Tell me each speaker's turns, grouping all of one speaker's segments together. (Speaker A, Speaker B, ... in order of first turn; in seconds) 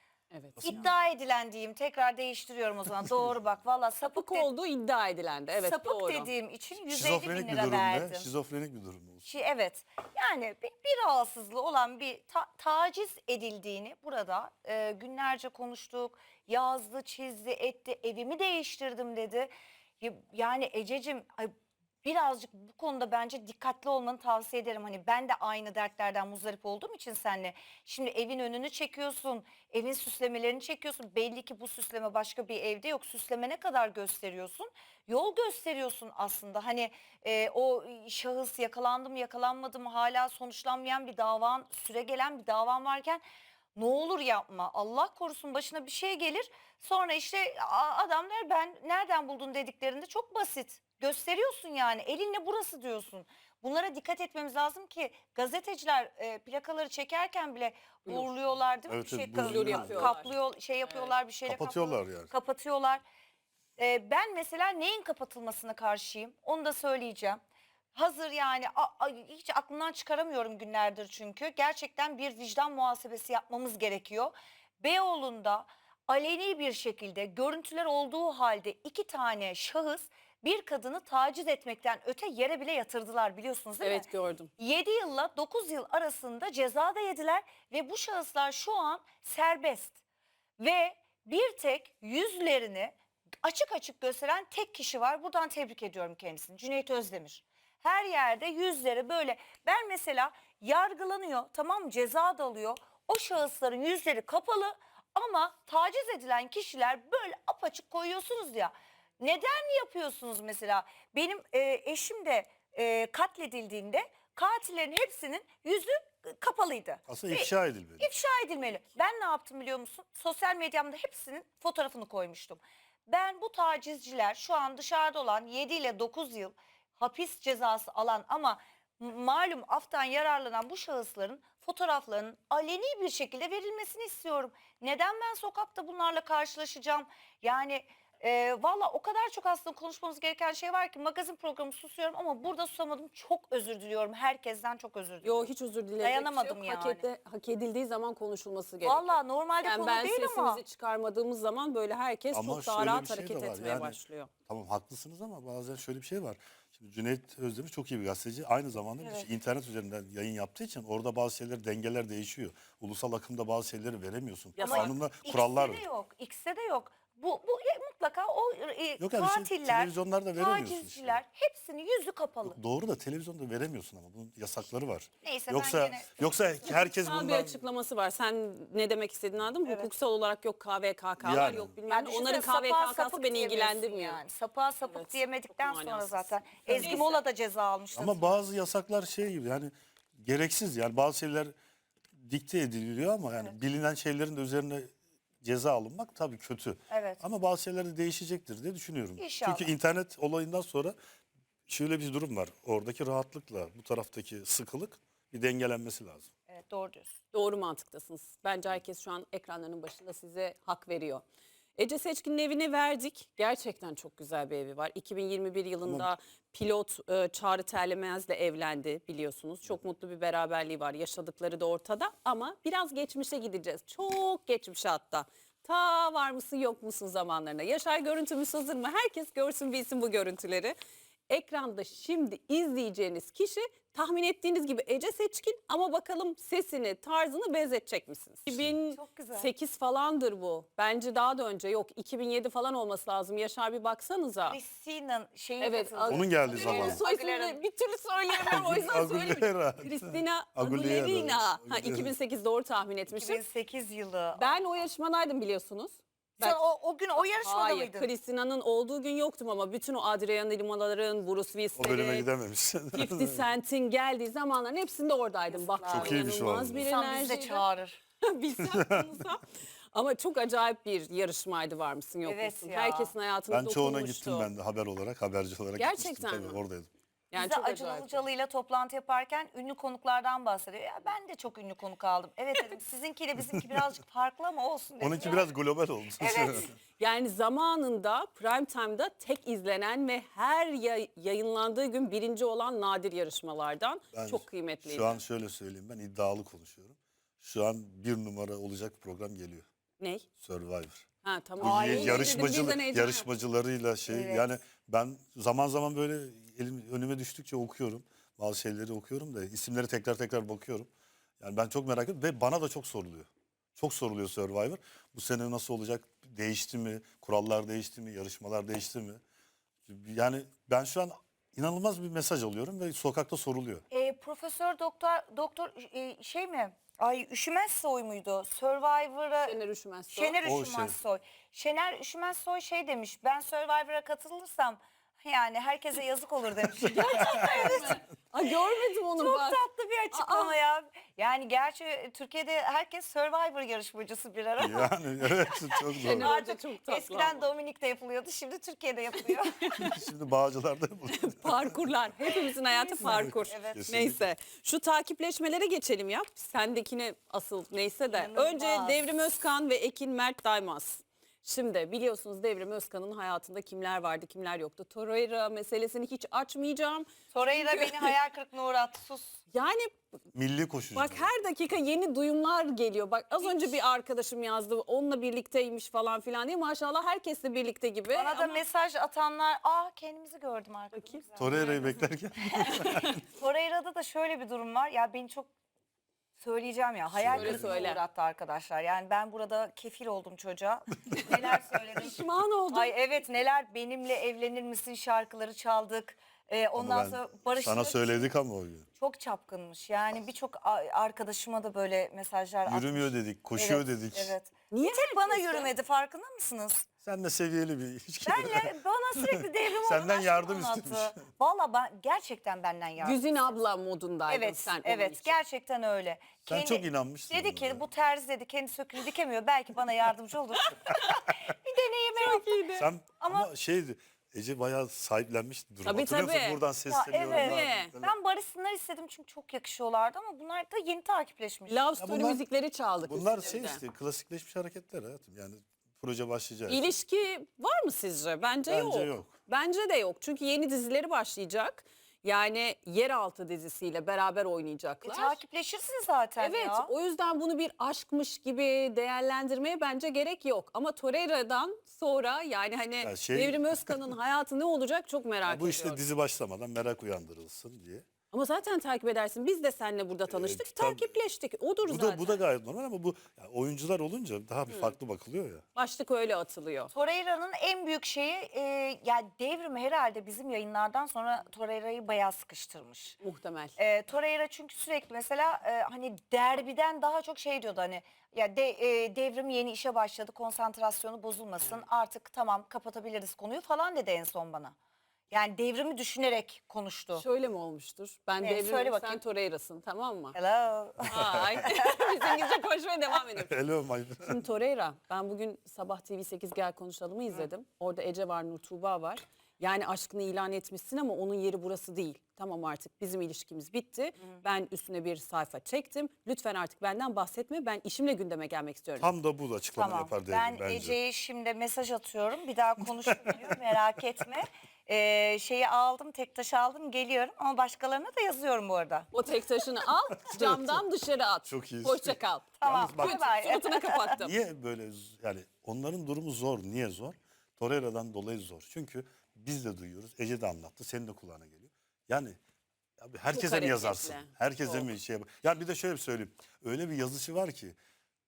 Speaker A: 0.3-0.9, 4.0-6.3, 59.4-60.3, 60.9-61.1, 83.8-84.5, 145.2-154.3, 164.6-164.9, 176.6-184.2, 184.8-187.2, 207.3-211.2, 211.8-230.7, 231.3-244.6, 245.6-253.4, 254.3-256.6, 257.2-262.3, 262.9-267.6, 268.2-274.5, 275.8-276.6, 277.3-278.2, 287.0-295.2, 300.0-300.2, 301.2-303.2, 329.4-330.4, 336.8-339.6, 340.1-340.5, 346.0-347.5, 349.6-349.9, 351.1-368.1, 369.5-369.9, 370.9-378.6, 380.9-381.2, 387.3-388.0, 392.0-392.9, 404.7-405.7, 413.0-415.4, 420.7-421.1, 422.2-422.9, 425.8-426.6, 427.2-427.9, 431.7-433.8, 436.7-445.4, 446.4-456.0, 458.3-462.4, 465.7-466.9, 473.2-473.7, 487.1-490.4, 491.1-493.6, 494.2-509.1, 519.1-524.3, 533.3-534.9
Speaker B: 0.6-0.8, 6.9-9.2, 58.9-60.3, 61.5-62.3, 117.1-118.1, 152.3-165.8, 169.0-171.2, 172.4-177.6, 181.2-181.7, 186.7-187.0, 187.9-191.5, 192.1-201.0, 201.7-206.3, 215.8-216.1, 238.5-238.8, 246.1-247.0, 248.3-252.1, 261.8-263.4, 265.9-266.9, 268.8-269.0, 273.5-276.9, 285.0-286.7, 294.1-299.6, 300.4-301.0, 301.6-310.9, 311.4-319.2, 319.9-323.8, 330.4-330.9, 337.5-337.9, 344.6-346.3, 349.8-351.8, 353.0-354.3, 370.3-371.3, 381.4-383.2, 387.1-387.9, 396.7-398.9, 402.6-404.3, 407.0-411.2, 416.4-417.8, 422.8-428.1, 432.0-432.4, 433.0-436.9, 438.7-439.3, 453.0-454.1, 455.4-458.0, 460.3-461.1, 461.8-465.6, 491.2-491.4, 493.4-494.4, 509.0-511.0, 513.1-513.5, 520.2-520.8, 521.5-523.2, 524.2-532.4, 533.0-537.8
Speaker C: 0.6-4.5, 5.5-8.3, 9.2-21.5, 22.0-43.2, 43.8-63.0, 63.8-67.4, 67.9-84.0, 84.6-90.0, 90.6-147.0, 148.8-150.6, 159.0-159.3, 164.6-172.6, 175.2-176.2, 179.6-179.9, 181.9-188.4, 196.9-197.2, 199.2-199.7, 206.5-207.2, 238.9-239.5, 244.5-247.6, 253.1-254.6, 256.4-258.1, 265.5-266.2, 266.8-268.0, 272.2-273.1, 277.3-285.5, 286.2-286.7, 301.6-302.6, 304.1-304.5, 323.9-329.5, 330.1-338.0, 339.1-349.7, 352.7-353.8, 358.1-359.0, 367.3-369.4, 373.4-373.8, 378.1-382.7, 383.3-385.5, 386.4-398.3, 399.0-406.9, 408.2-413.5, 414.3-422.6, 423.2-423.5, 426.9-431.8, 445.0-446.9, 466.9-473.2, 473.8-484.7, 485.3-487.2, 488.4-489.2, 490.3-492.4, 509.7-519.1, 522.6-524.2